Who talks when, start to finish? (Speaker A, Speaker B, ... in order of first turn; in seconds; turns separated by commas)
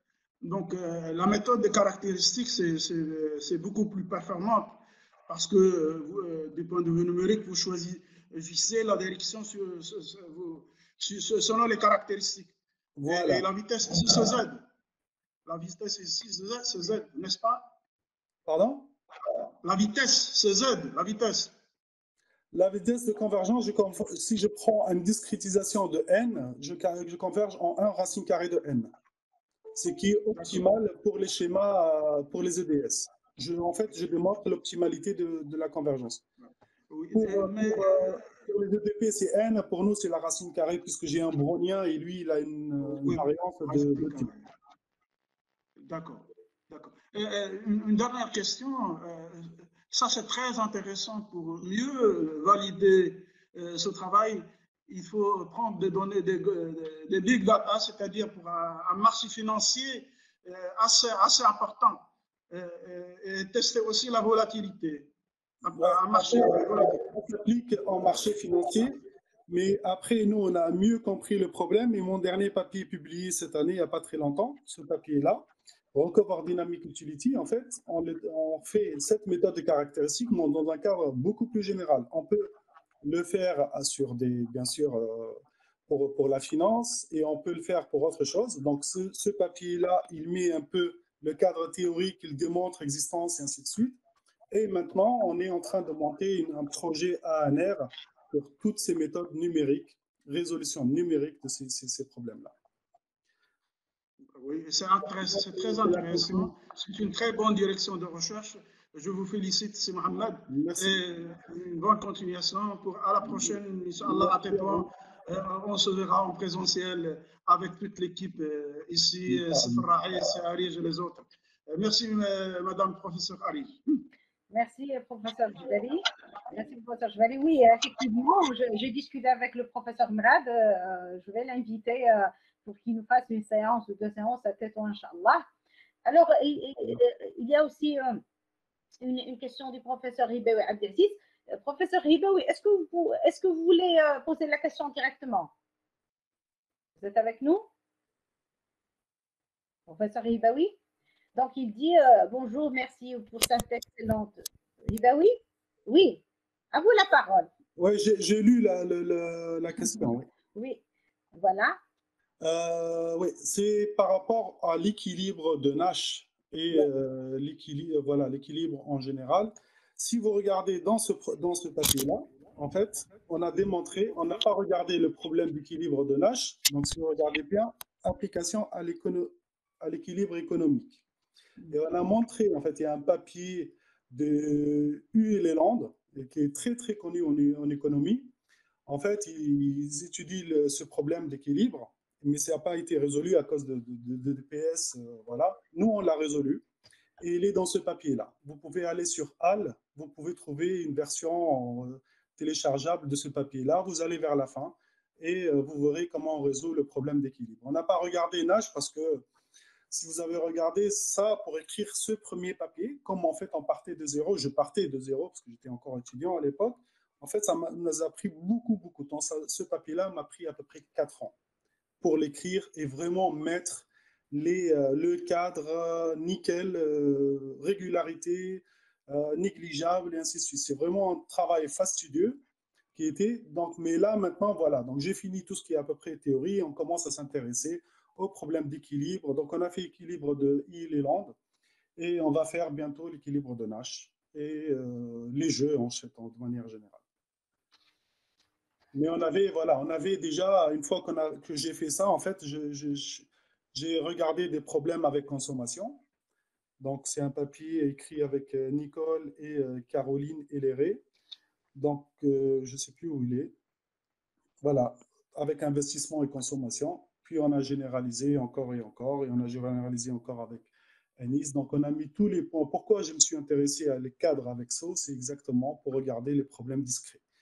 Speaker A: 0.4-12.5, Speaker B: 13.0-13.5, Speaker A: 13.1-14.6, Speaker B: 14.0-14.3, Speaker A: 15.4-17.7, Speaker B: 18.4-18.9, Speaker A: 19.6-21.5, Speaker B: 22.5-28.9, Speaker B: 29.7-36.2, Speaker A: 30.3-30.6, Speaker A: 36.9-38.3, Speaker B: 37.1-44.3, Speaker A: 43.0-44.4, Speaker A: 45.8-65.1, Speaker A: 65.6-67.0, Speaker B: 65.7-69.0, Speaker B: 69.5-82.5, Speaker B: 83.0-94.0, Speaker B: 94.5-102.5, Speaker A: 104.3-123.8, Speaker B: 105.2-106.5, Speaker B: 110.5-111.0, Speaker B: 113.2-114.9, Speaker B: 119.3-119.9, Speaker C: 124.5-135.4, Speaker C: 136.1-138.2, Speaker C: 139.0-145.5, Speaker C: 147.0-147.7, Speaker C: 149.9-150.8, Speaker C: 151.3-157.5, Speaker B: 157.8-160.3, Speaker C: 160.5-161.8, Speaker B: 162.4-181.0, Speaker B: 181.7-188.3, Speaker B: 188.8-196.6, Speaker B: 197.2-209.2, Speaker B: 209.9-221.3, Speaker B: 222.0-232.4, Speaker B: 232.9-241.3, Speaker B: 241.9-247.0, Speaker B: 248.9-256.0, Speaker B: 256.8-261.0, Speaker B: 261.7-263.6, Speaker B: 264.6-277.2